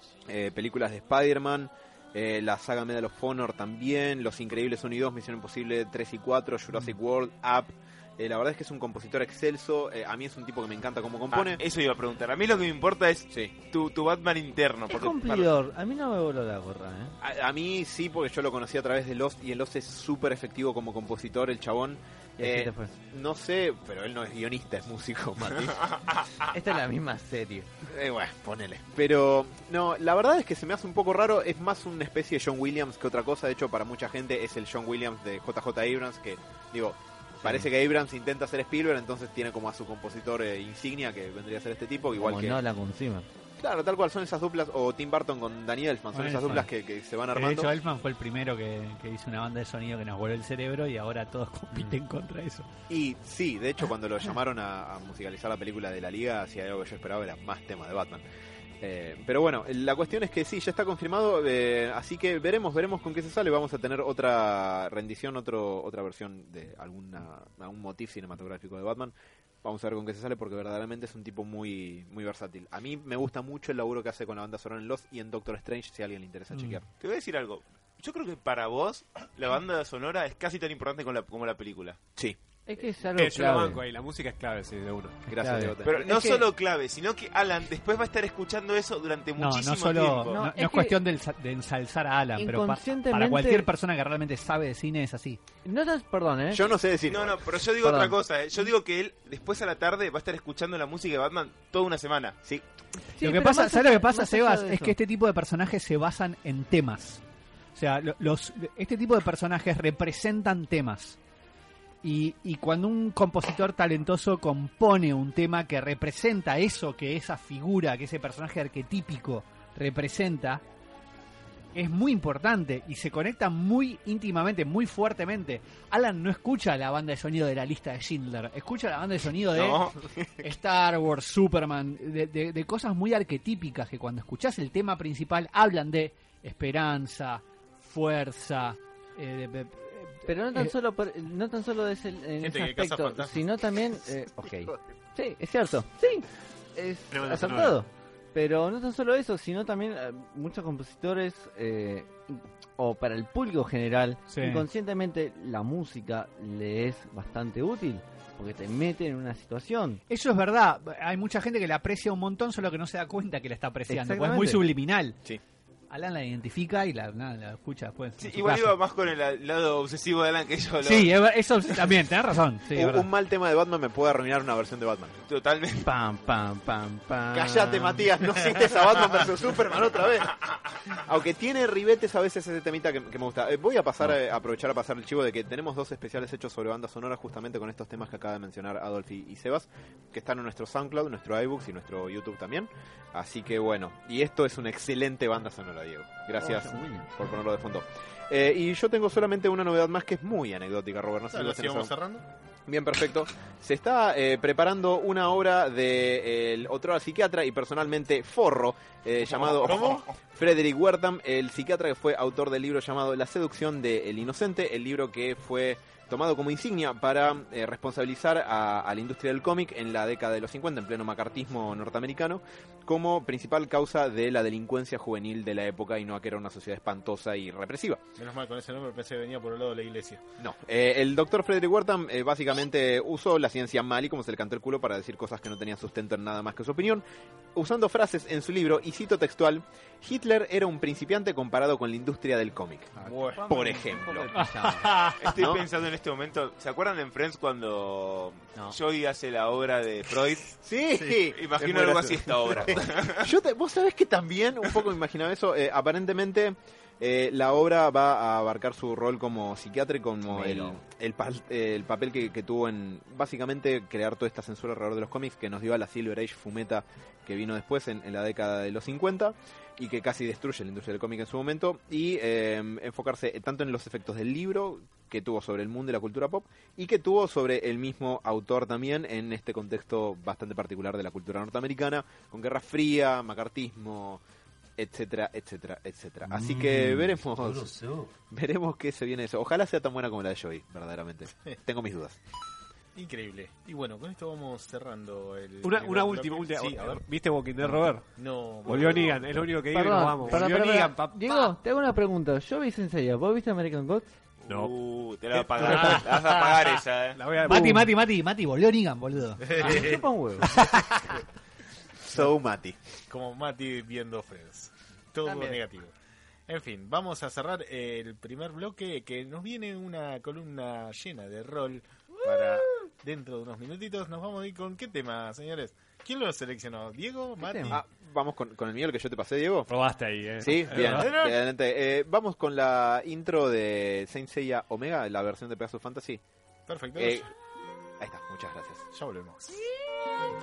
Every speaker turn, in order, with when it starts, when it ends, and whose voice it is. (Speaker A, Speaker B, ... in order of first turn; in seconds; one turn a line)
Speaker A: 0.3-11.6
Speaker B: 11.3-15.5
Speaker C: 14.9-17.1
Speaker A: 17.2-25.8
Speaker C: 22.4-22.9
Speaker B: 25.5-26.5
Speaker C: 26.5-27.7
Speaker A: 27.9-42.6
Speaker C: 37.4-37.7
Speaker C: 42.2-43.3
Speaker A: 43.6-47.7
Speaker D: 46.1-46.7
Speaker D: 47.3-52.7
Speaker A: 52.9-58.2
Speaker A: 58.8-76.8
Speaker D: 76.5-76.8
Speaker B: 77.0-82.0
Speaker C: 82.7-83.8
Speaker E: 83.1-85.2
Speaker A: 85.3-86.4
Speaker C: 85.4-86.4
Speaker B: 85.8-90.4
Speaker D: 89.4-95.4
Speaker C: 90.3-91.0
Speaker C: 92.3-93.7
Speaker C: 95.7-96.7
Speaker A: 96.5-97.6
Speaker B: 97.1-102.4
Speaker C: 97.8-98.2
Speaker C: 103.1-105.0
Speaker D: 103.2-107.2
Speaker D: 107.8-111.2
Speaker D: 112.0-120.6
Speaker D: 121.7-129.9
Speaker B: 129.5-130.3
Speaker D: 130.4-140.7
Speaker C: 140.2-160.0
Speaker F: 142.4-143.4
Speaker E: 147.1-147.8
Speaker D: 154.3-154.7
Speaker D: 160.1-165.2
Speaker C: 163.9-164.6
Speaker D: 165.9-168.8
Speaker B: 168.2-171.1
Speaker D: 170.8-173.1
Speaker A: 172.7-175.2
Speaker B: 175.3-175.9
Speaker C: 175.8-178.1
Speaker A: 177.3-201.9
Speaker C: 196.4-197.1
Speaker F: 201.3-202.2
Speaker A: 202.7-228.0
Speaker F: 209.3-210.1
Speaker B: 209.7-210.0
Speaker F: 228.2-230.2
Speaker A: 230.4-237.0
Speaker A: 237.6-244.3
Speaker C: 243.0-245.0
Speaker D: 244.3-245.2
Speaker B: 245.2-250.5
Speaker A: 245.3-245.7
Speaker A: 250.6-284.2
Speaker F: 251.0-251.2
Speaker B: 251.3-253.3
Speaker C: 260.3-260.8
Speaker A: 284.8-292.2
Speaker F: 292.9-297.0
Speaker E: 295.6-298.1
Speaker F: 298.1-299.5
Speaker E: 298.6-301.2
Speaker C: 299.7-304.1
Speaker D: 300.3-300.8
Speaker B: 304.5-307.2
Speaker E: 304.5-304.8
Speaker E: 305.4-307.9
Speaker D: 305.6-306.0
Speaker D: 307.4-309.9
Speaker F: 309.4-310.1
Speaker C: 309.6-310.5
Speaker D: 310.5-311.1
Speaker A: 312.0-312.8
Speaker F: 313.1-315.9
Speaker C: 315.2-315.6
Speaker F: 316.5-327.8
Speaker C: 322.2-322.8
Speaker C: 327.4-327.8
Speaker A: 327.7-329.7
Speaker E: 329.7-331.1
Speaker A: 330.4-336.2
Speaker F: 330.7-331.4
Speaker F: 336.7-337.3
Speaker A: 337.0-337.3
Speaker A: 338.0-338.9
Speaker F: 338.9-339.6